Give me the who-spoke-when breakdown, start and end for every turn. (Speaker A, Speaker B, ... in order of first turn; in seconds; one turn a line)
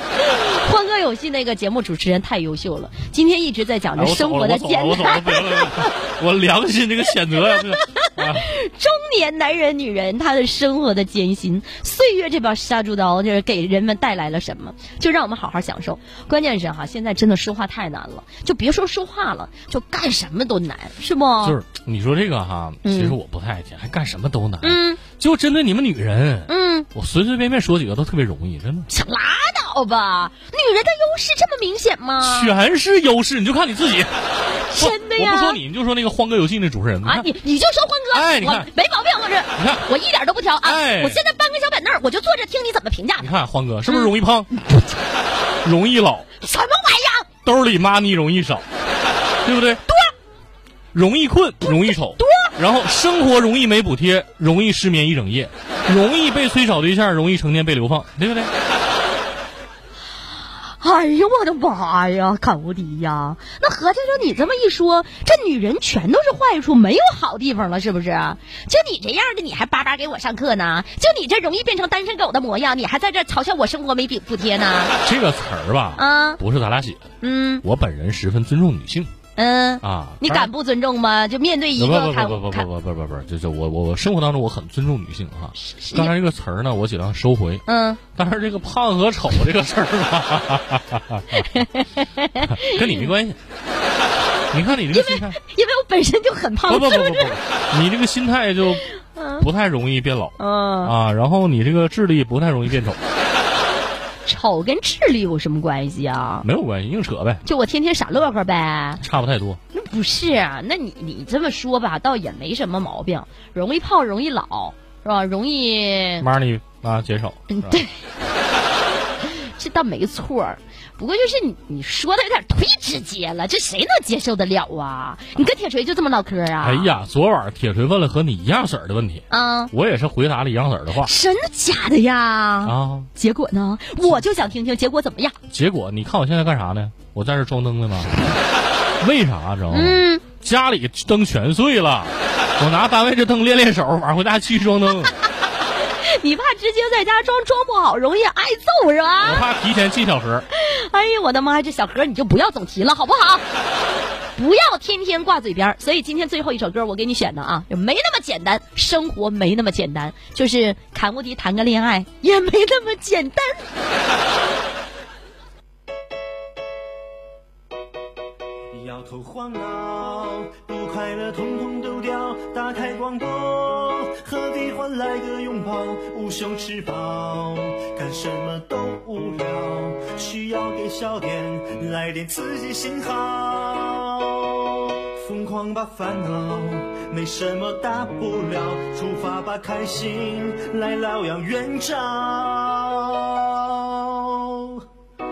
Speaker A: 0.1-5.9
Speaker B: 3.9-8.5
Speaker A: 7.4-21.6
Speaker B: 21.4-28.9
Speaker A: 22.8-23.2
Speaker A: 24.6-25.0
Speaker A: 26.5-26.9
Speaker A: 28.9-32.5
Speaker B: 32.2-34.1
Speaker A: 34.5-35.6
Speaker B: 34.8-37.3
Speaker A: 37.0-43.3
Speaker B: 38.1-38.7
Speaker B: 39.6-39.9
Speaker B: 40.6-41.2
Speaker B: 43.2-44.6
Speaker B: 45.6-46.3
Speaker A: 46.4-47.3
Speaker B: 47.4-48.6
Speaker B: 49.4-49.8
Speaker B: 50.9-58.5
Speaker A: 51.7-52.5
Speaker A: 60.8-75.0
Speaker B: 75.0-77.0
Speaker A: 76.0-76.4
Speaker A: 77.2-77.6
Speaker B: 77.6-79.1
Speaker A: 79.4-82.7
Speaker B: 79.8-80.5
Speaker B: 81.8-87.6
Speaker A: 85.6-86.1
Speaker A: 87.7-88.0
Speaker B: 88.1-91.6
Speaker A: 91.4-93.1
Speaker B: 92.4-93.4
Speaker B: 94.5-95.4
Speaker A: 94.9-97.4
Speaker B: 96.7-98.8
Speaker A: 98.7-99.5
Speaker B: 99.4-103.0
Speaker A: 100.4-100.9
Speaker A: 104.2-106.4
Speaker B: 106.4-107.4
Speaker A: 107.4-109.0
Speaker B: 109.0-109.6
Speaker A: 109.7-116.2
Speaker B: 116.2-117.8
Speaker A: 117.5-118.0
Speaker A: 119.2-126.9
Speaker B: 126.6-131.1
Speaker A: 129.3-129.7
Speaker A: 131.0-135.4
Speaker B: 132.6-133.1
Speaker B: 135.5-138.2
Speaker B: 139.0-145.1
Speaker A: 139.7-140.2
Speaker A: 145.8-149.5
Speaker B: 149.2-150.5
Speaker A: 150.5-153.4
Speaker A: 154.4-163.7
Speaker C: 168.7-194.8